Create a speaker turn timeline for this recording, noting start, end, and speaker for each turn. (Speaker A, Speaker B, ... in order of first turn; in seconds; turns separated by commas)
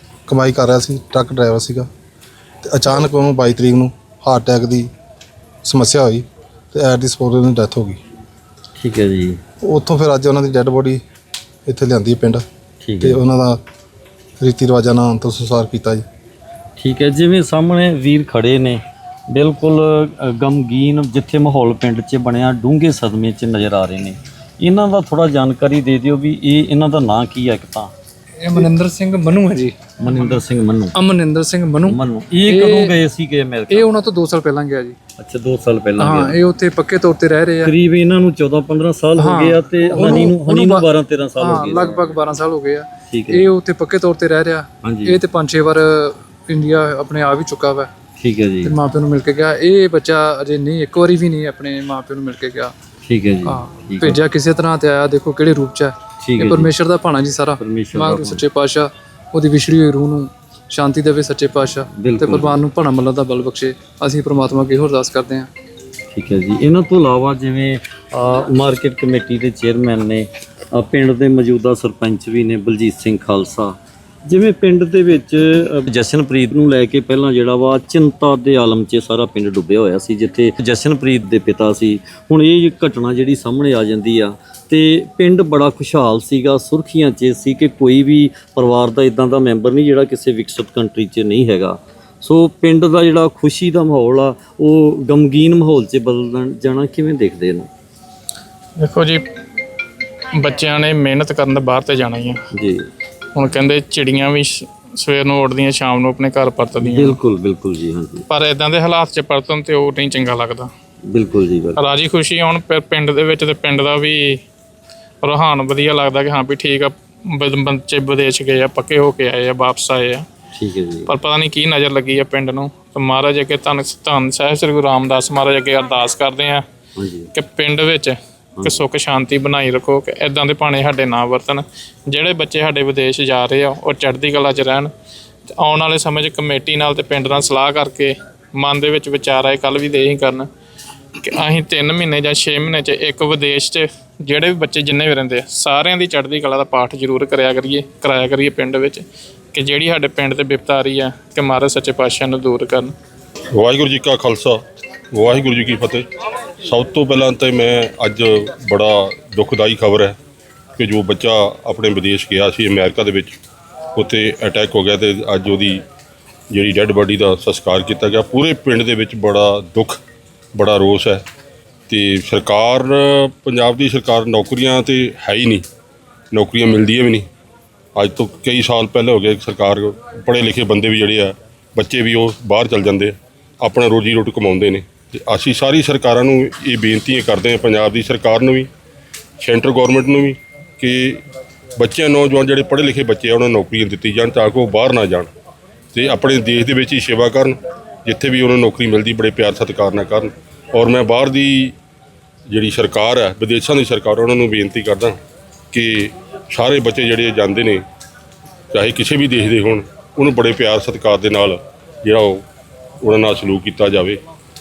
Speaker A: 0.3-1.9, Speaker A: 2.6-4.9, Speaker A: 5.6-8.0, Speaker B: 8.8-9.4, Speaker A: 9.6-11.0, Speaker A: 11.7-12.4, Speaker B: 12.8-13.2, Speaker A: 13.0-13.6, Speaker A: 14.4-16.0, Speaker B: 16.8-27.9, Speaker C: 28.4-29.8, Speaker B: 30.0-30.9, Speaker C: 30.9-32.9, Speaker B: 31.8-33.9, Speaker C: 33.7-35.0, Speaker B: 35.2-36.4, Speaker C: 36.0-37.7, Speaker B: 37.6-42.4, Speaker C: 39.2-40.8, Speaker C: 41.4-47.9, Speaker B: 43.1-43.5, Speaker B: 44.8-45.2, Speaker B: 48.2-48.7, Speaker C: 48.6-52.7, Speaker B: 53.0-54.2, Speaker C: 53.5-65.5, Speaker B: 56.2-56.7, Speaker B: 57.6-58.4, Speaker B: 61.9-62.6, Speaker B: 66.1-97.7, Speaker D: 98.8-99.2, Speaker D: 100.3-102.4, Speaker B: 102.5-102.9, Speaker D: 103.3-107.2, Speaker B: 106.8-108.2, Speaker D: 108.3-110.7, Speaker B: 111.1-111.9, Speaker D: 111.8-114.4, Speaker D: 115.2-120.2, Speaker B: 120.5-121.1, Speaker D: 121.1-126.6, Speaker B: 127.0-127.3, Speaker D: 127.3-134.9, Speaker B: 128.6-128.8, Speaker D: 135.6-140.5, Speaker D: 141.2-152.9, Speaker E: 153.5-154.6, Speaker E: 155.1-156.1, Speaker E: 156.6-160.2, Speaker E: 160.8-163.3, Speaker E: 163.9-165.8, Speaker E: 166.5-170.0, Speaker E: 170.5-171.2, Speaker E: 171.9-175.6, Speaker E: 176.3-177.3, Speaker E: 177.9-188.7, Speaker E: 189.4-191.2, Speaker E: 191.8-195.3, Speaker E: 195.9-201.8, Speaker E: 202.5-205.2, Speaker E: 205.7-207.8, Speaker E: 208.7-212.4, Speaker E: 213.0-214.2